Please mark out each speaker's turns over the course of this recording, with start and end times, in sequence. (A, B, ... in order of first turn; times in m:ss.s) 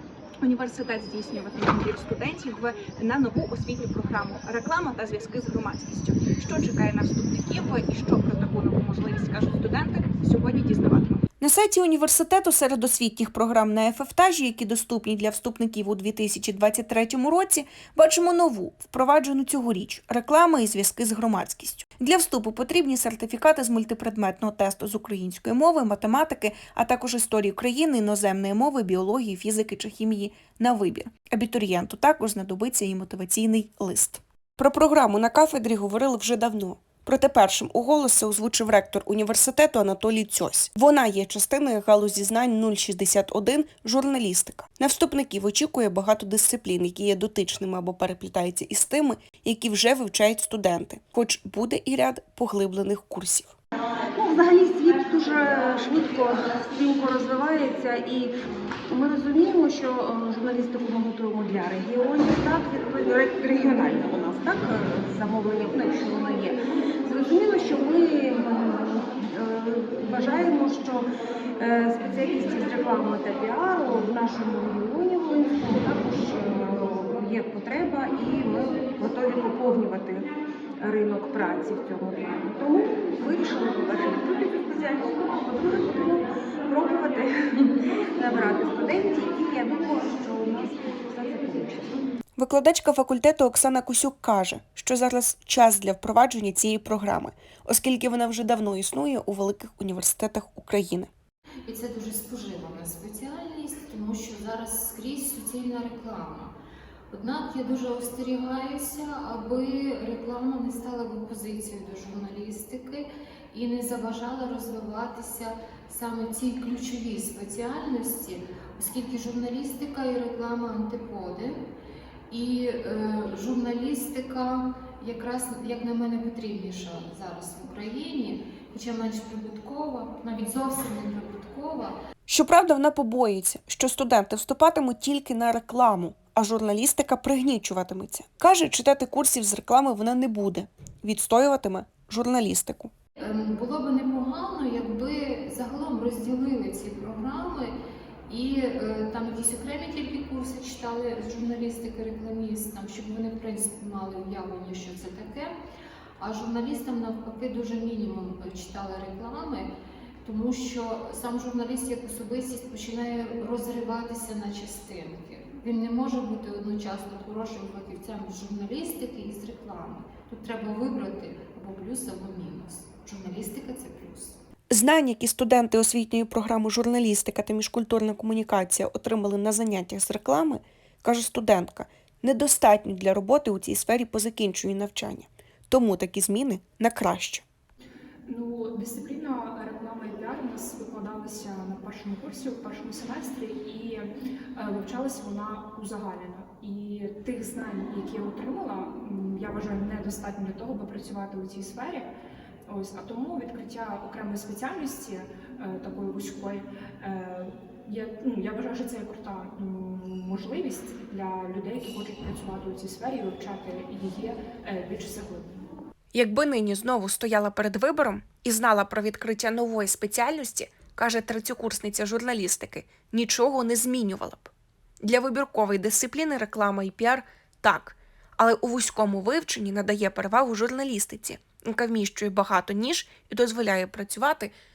0:00.4-0:11.2 A
0:11.4-0:53.5 B
0:54.2-0:58.3 C
0:58.9-1:06.6 C
1:07.1-1:11.0 C
1:11.6-1:20.2 C
1:20.9-1:26.2 C
1:26.7-1:27.2 C
1:28.2-1:31.9 C
1:32.4-1:41.1 B
1:41.7-1:46.6 D
1:47.1-2:01.6 D
2:02.3-2:12.0 D
2:12.3-2:22.9 B
2:23.2-2:27.8 D
2:28.3-2:35.6 D
2:36.2-2:39.7 D
2:40.2-2:54.4 D
2:54.7-3:07.4 B
3:08.3-3:22.1 E
3:22.7-3:35.7 E
3:36.1-3:44.5 B
3:45.0-3:54.5 B